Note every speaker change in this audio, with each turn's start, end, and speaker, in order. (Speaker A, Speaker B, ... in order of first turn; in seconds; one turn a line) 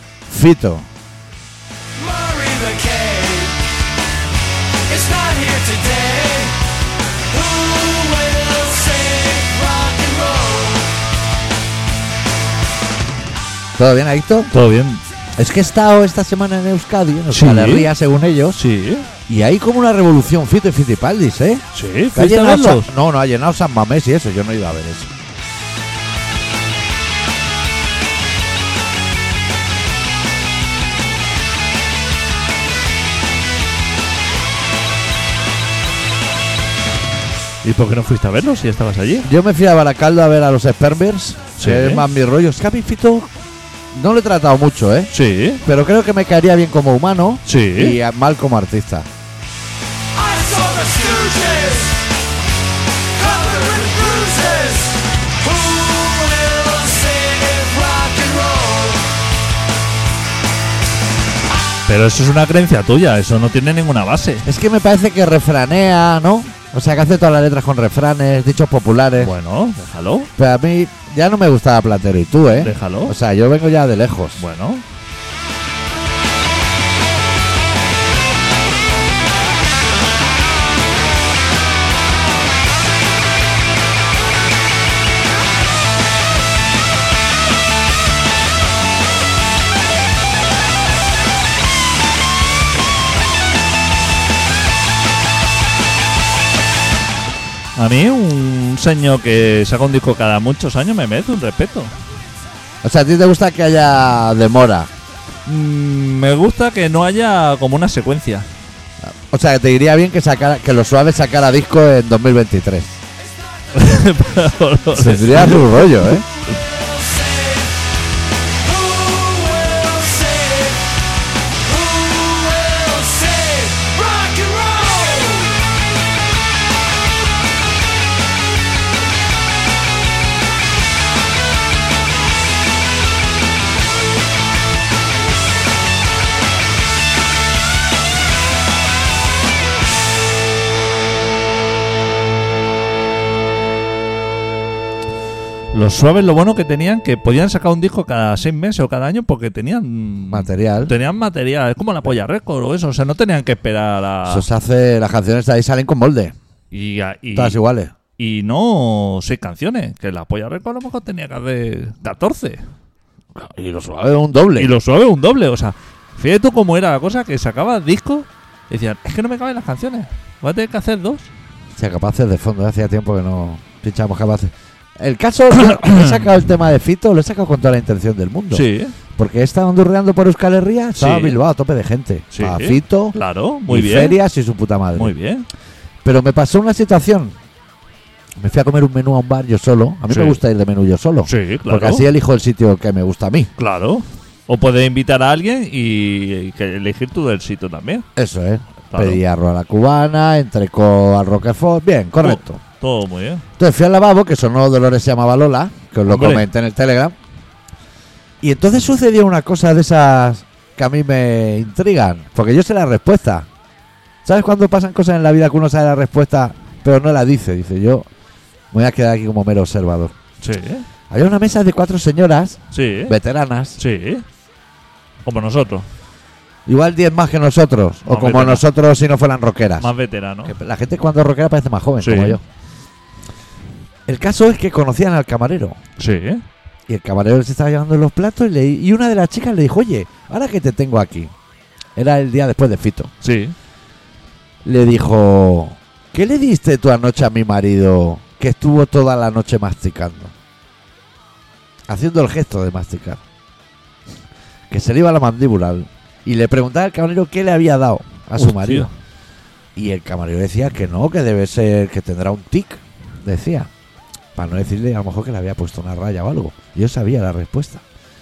Speaker A: 0.3-0.9
Speaker B: 1.9-3.6
Speaker B: 4.9-6.6
Speaker B: 7.3-10.9
Speaker A: 13.8-14.5
Speaker C: 14.5-15.0
Speaker A: 15.4-18.6
Speaker C: 17.3-17.9
Speaker C: 18.5-19.1
Speaker A: 19.3-21.6
Speaker C: 21.7-22.9
Speaker A: 22.1-25.1
Speaker C: 37.6-39.3
Speaker A: 39.2-43.3
Speaker C: 41.6-42.0
Speaker A: 43.9-45.1
Speaker C: 45.1-45.6
Speaker A: 45.6-49.1
Speaker C: 47.5-48.0
Speaker B: 50.1-52.1
Speaker B: 53.1-59.1
Speaker C: 61.9-64.5
Speaker A: 64.4-69.3
Speaker C: 69.2-70.3
Speaker A: 70.4-74.4
Speaker C: 72.6-73.2
Speaker C: 74.4-74.8
Speaker C: 97.8-101.9
Speaker A: 102.8-104.9
Speaker C: 105.5-108.5
Speaker A: 109.0-113.0
Speaker C: 113.7-116.0
Speaker A: 114.9-116.2
Speaker B: 116.5-117.8
Speaker B: 118.6-121.0
Speaker B: 121.6-125.6
Speaker C: 145.7-154.4
Speaker A: 150.3-150.9
Speaker A: 154.2-156.3
Speaker C: 156.7-157.6
Speaker A: 157.3-157.9
Speaker C: 158.2-162.7
Speaker A: 163.3-164.7
Speaker C: 164.6-171.3
Speaker A: 171.8-183.1
Speaker C: 175.6-176.2
Speaker C: 178.5-178.9
Speaker C: 180.9-181.4
Speaker C: 182.3-184.2
Speaker A: 183.7-185.1
Speaker C: 184.9-185.4
Speaker A: 186.0-187.3
Speaker A: 188.4-193.5
Speaker C: 190.1-190.4
Speaker C: 191.2-192.1
Speaker C: 193.6-198.1
Speaker A: 198.2-202.6
Speaker C: 198.9-199.2
Speaker C: 202.2-203.4
Speaker A: 203.6-207.2
Speaker C: 206.1-206.4
Speaker A: 208.4-213.5
Speaker A: 214.2-218.1
Speaker A: 218.7-220.1
Speaker C: 220.4-220.9
Speaker A: 221.1-223.8
Speaker C: 222.7-223.2
Speaker C: 223.8-224.2
Speaker C: 225.2-225.9
Speaker A: 226.7-229.9
Speaker C: 228.0-228.6
Speaker C: 229.8-230.5
Speaker A: 230.4-232.4
Speaker C: 232.0-232.4
Speaker A: 234.1-235.8
Speaker C: 236.0-236.4
Speaker A: 236.9-241.3
Speaker A: 241.9-243.1
Speaker C: 243.2-243.5
Speaker A: 244.6-250.3
Speaker A: 251.9-253.2
Speaker A: 254.7-258.9
Speaker C: 258.4-258.9
Speaker A: 259.7-263.7
Speaker A: 264.3-267.8